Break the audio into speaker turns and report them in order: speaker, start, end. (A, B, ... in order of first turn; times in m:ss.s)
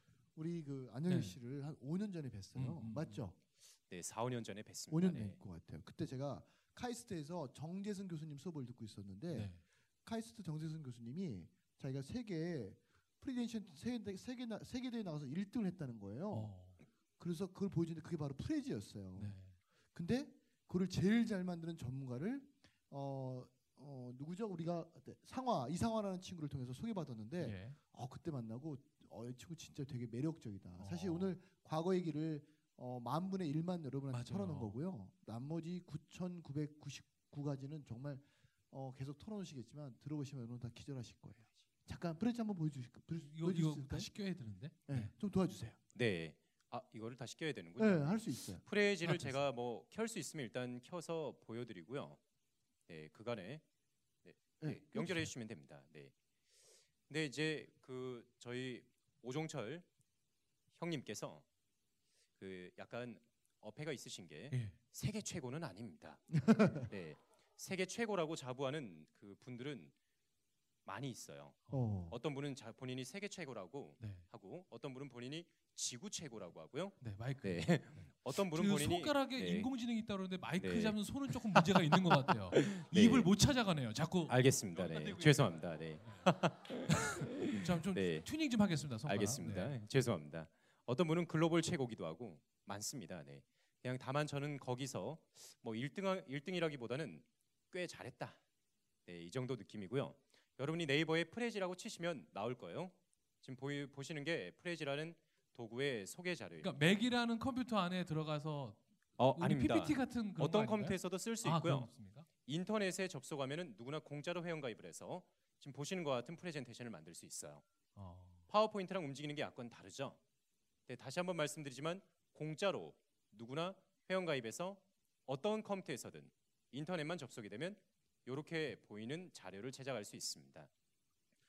0:00.4-0:03.4 A
0:01.1-0:01.4 B
0:02.6-0:03.3 B
0:03.9-0:05.4 C
0:04.9-0:16.6 A
0:09.3-0:09.6 B
0:16.3-0:16.8 B
0:17.2-0:19.4 A
0:19.2-0:19.6 B
0:19.9-0:45.8 A
0:27.4-0:27.8 B
0:30.8-0:31.3 B
0:34.1-0:34.8 B
0:43.2-0:45.1 B
0:45.9-0:52.2 C
0:47.8-0:49.2 A
0:49.0-0:49.4 B
0:52.9-0:53.6 C
0:54.2-0:56.1 C
0:54.6-0:55.3 A
0:57.1-0:59.9 C
1:00.8-1:01.4 C
1:02.4-1:09.9 C
1:06.4-1:06.9 A
1:10.8-1:11.6 C
1:11.7-1:12.2 A
1:12.1-1:19.7 C
1:14.0-1:14.2 B
1:17.0-1:26.3 B
1:20.6-1:21.0 C
1:21.6-1:22.0 C
1:22.5-1:23.3 C
1:24.3-1:28.3 C
1:26.9-1:29.8 B
1:29.0-1:38.4 C
1:39.1-1:47.0 C
1:46.6-1:52.3 B
1:49.2-1:51.9 C
1:52.5-1:57.6 C
1:58.0-1:58.5 B
1:58.5-2:00.2 C
2:00.9-2:10.7 C